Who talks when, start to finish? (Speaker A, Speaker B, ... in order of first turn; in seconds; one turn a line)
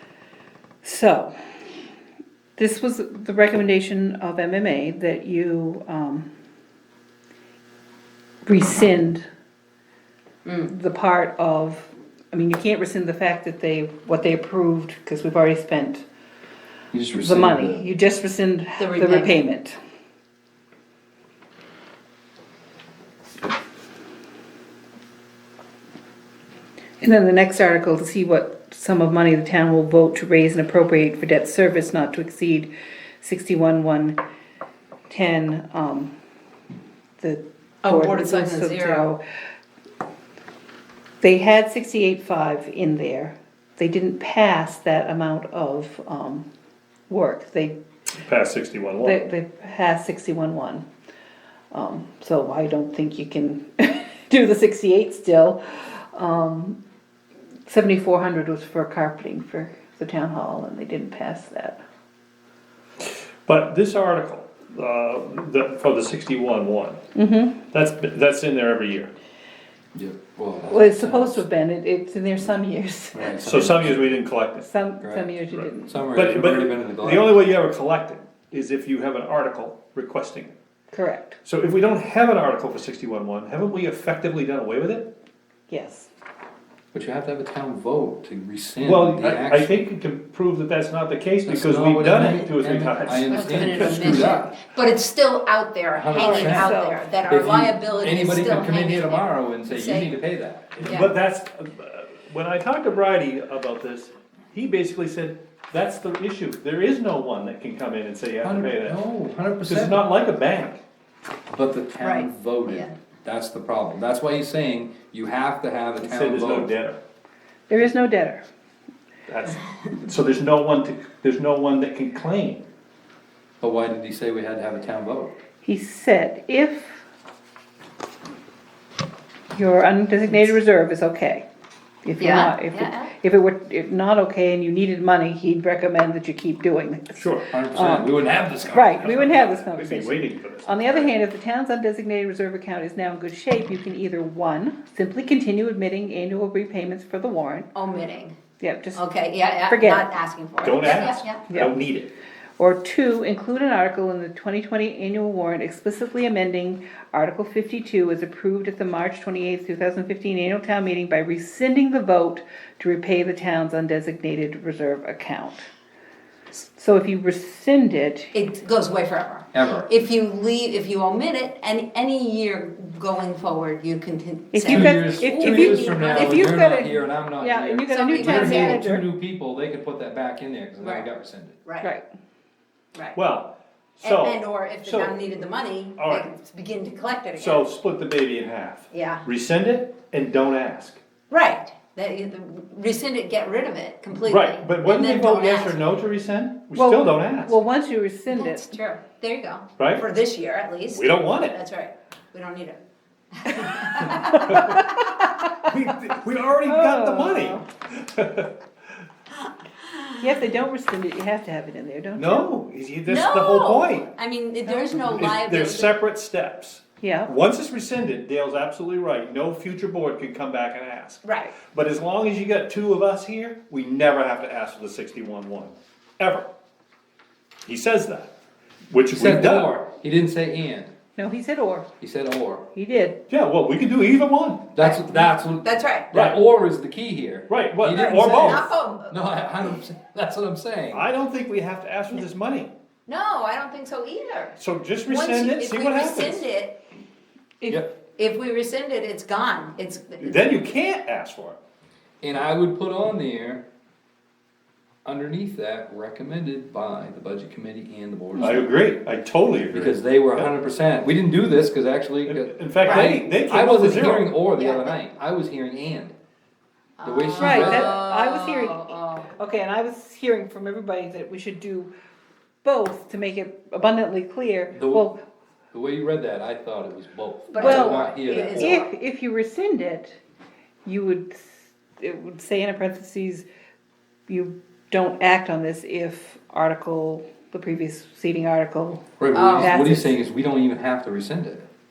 Speaker A: 0.8-1.4
Speaker A: 2.6-6.3
Speaker A: 8.4-9.2
Speaker B: 10.4-10.7
Speaker A: 10.7-16.1
Speaker C: 16.9-17.9
Speaker A: 17.1-19.8
Speaker B: 18.8-19.3
Speaker A: 27.0-34.2
Speaker A: 35.1-36.1
Speaker A: 37.2-39.2
Speaker B: 37.8-39.1
Speaker A: 41.2-46.5
Speaker A: 47.1-47.8
Speaker D: 48.2-49.2
Speaker A: 49.0-50.9
Speaker A: 51.7-56.8
Speaker A: 57.7-61.8
Speaker D: 63.0-67.0
Speaker A: 67.2-67.6
Speaker D: 67.7-69.1
Speaker C: 69.9-71.4
Speaker A: 70.7-73.4
Speaker C: 73.1-74.2
Speaker D: 73.5-74.7
Speaker A: 74.6-76.1
Speaker C: 75.0-77.4
Speaker D: 76.1-80.5
Speaker A: 80.9-81.4
Speaker D: 81.4-85.1
Speaker A: 85.7-86.1
Speaker C: 86.9-89.7
Speaker D: 88.8-94.3
Speaker C: 91.4-94.5
Speaker B: 93.1-100.2
Speaker C: 95.9-96.7
Speaker A: 96.2-97.0
Speaker C: 97.3-101.0
Speaker D: 100.8-109.0
Speaker B: 100.8-101.1
Speaker C: 108.4-110.0
Speaker D: 109.7-110.8
Speaker C: 111.5-116.7
Speaker B: 112.0-112.9
Speaker D: 116.0-117.0
Speaker A: 117.7-118.4
Speaker D: 119.3-122.7
Speaker C: 123.6-125.3
Speaker A: 125.6-127.0
Speaker A: 129.5-131.5
Speaker A: 132.0-138.1
Speaker B: 132.2-133.1
Speaker D: 137.2-137.5
Speaker C: 137.5-139.2
Speaker A: 138.7-147.7
Speaker D: 138.8-141.1
Speaker B: 147.8-148.4
Speaker A: 148.6-149.0
Speaker B: 148.9-151.4
Speaker A: 149.7-150.1
Speaker D: 150.6-152.1
Speaker A: 152.6-165.7
Speaker A: 166.6-168.3
Speaker B: 168.3-176.4
Speaker C: 169.5-169.9
Speaker A: 174.5-179.1
Speaker C: 174.7-181.6
Speaker B: 177.9-178.8
Speaker B: 180.8-181.1
Speaker D: 183.2-185.5
Speaker B: 184.0-187.7
Speaker D: 186.0-186.3
Speaker D: 187.3-191.0
Speaker B: 188.9-189.2
Speaker B: 191.3-195.9
Speaker D: 194.2-197.6
Speaker A: 196.8-198.7
Speaker B: 198.3-202.8
Speaker D: 199.8-200.1
Speaker D: 200.9-201.6
Speaker B: 203.3-205.1
Speaker D: 204.3-204.9
Speaker D: 205.6-208.5
Speaker A: 206.7-207.7
Speaker A: 210.2-212.5
Speaker D: 212.2-214.1
Speaker B: 213.1-216.0
Speaker A: 214.7-214.9
Speaker D: 214.9-226.5
Speaker A: 217.0-217.3
Speaker B: 221.2-221.5
Speaker D: 227.7-228.3
Speaker D: 228.9-229.7
Speaker C: 229.1-230.9
Speaker A: 231.2-231.9
Speaker C: 232.0-232.7
Speaker A: 232.7-233.2
Speaker D: 233.3-234.7
Speaker C: 234.8-241.1
Speaker B: 234.8-236.1
Speaker D: 236.1-236.4
Speaker D: 237.5-238.6
Speaker B: 238.4-239.2
Speaker D: 240.9-242.7
Speaker B: 243.1-246.8
Speaker D: 244.6-246.5
Speaker A: 247.6-247.9
Speaker B: 248.2-250.4
Speaker D: 250.2-251.6
Speaker C: 252.2-253.7
Speaker C: 255.1-258.7
Speaker A: 258.3-258.7
Speaker D: 258.4-260.5
Speaker C: 259.7-266.1
Speaker D: 262.3-264.3
Speaker B: 262.8-263.1
Speaker B: 264.6-265.0
Speaker B: 267.0-269.3
Speaker C: 267.0-268.0
Speaker A: 267.4-271.9
Speaker A: 272.6-275.2
Speaker C: 274.8-275.1
Speaker C: 275.7-278.8
Speaker B: 277.5-278.9
Speaker A: 277.6-280.2
Speaker A: 280.9-283.5
Speaker A: 284.3-290.2
Speaker C: 289.2-291.7
Speaker B: 289.3-290.0